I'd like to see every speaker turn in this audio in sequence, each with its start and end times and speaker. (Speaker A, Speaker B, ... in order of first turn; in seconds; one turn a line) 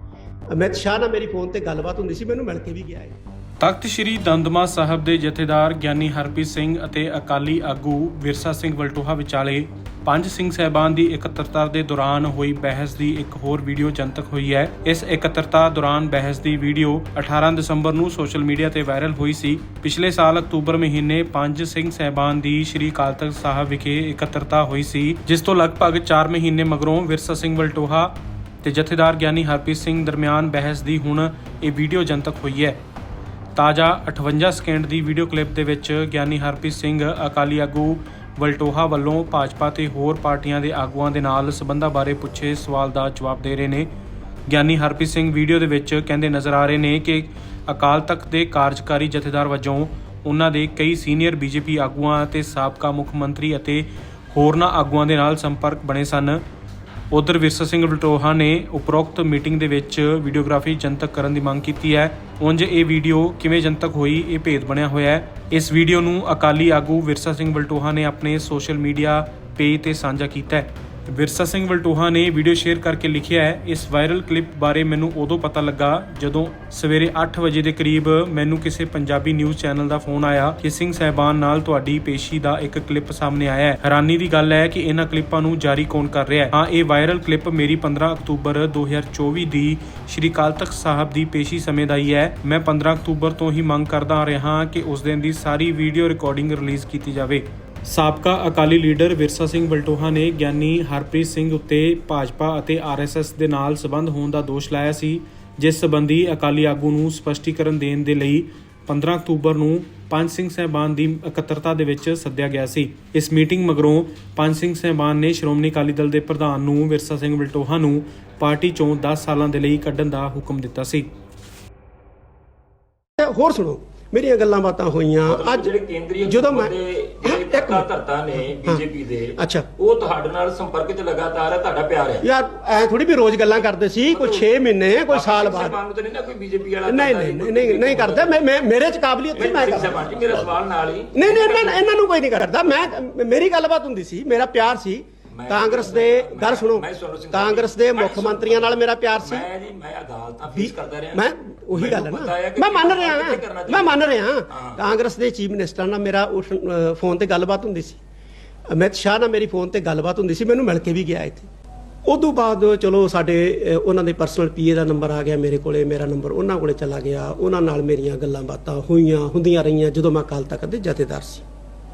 Speaker A: 0.5-3.2
Speaker B: 3.6-32.8
Speaker B: 33.5-43.9
Speaker B: 44.5-56.4
Speaker B: 57.1-121.1
Speaker A: 123.2-125.7
Speaker C: 125.2-132.2
Speaker A: 126.2-127.9
Speaker A: 129.3-129.7
Speaker A: 132.2-135.8
Speaker C: 134.1-138.4
Speaker A: 136.8-140.4
Speaker C: 139.3-141.9
Speaker A: 141.1-149.5
Speaker C: 145.3-154.8
Speaker A: 150.5-158.0
Speaker A: 158.7-161.5
Speaker A: 162.1-171.4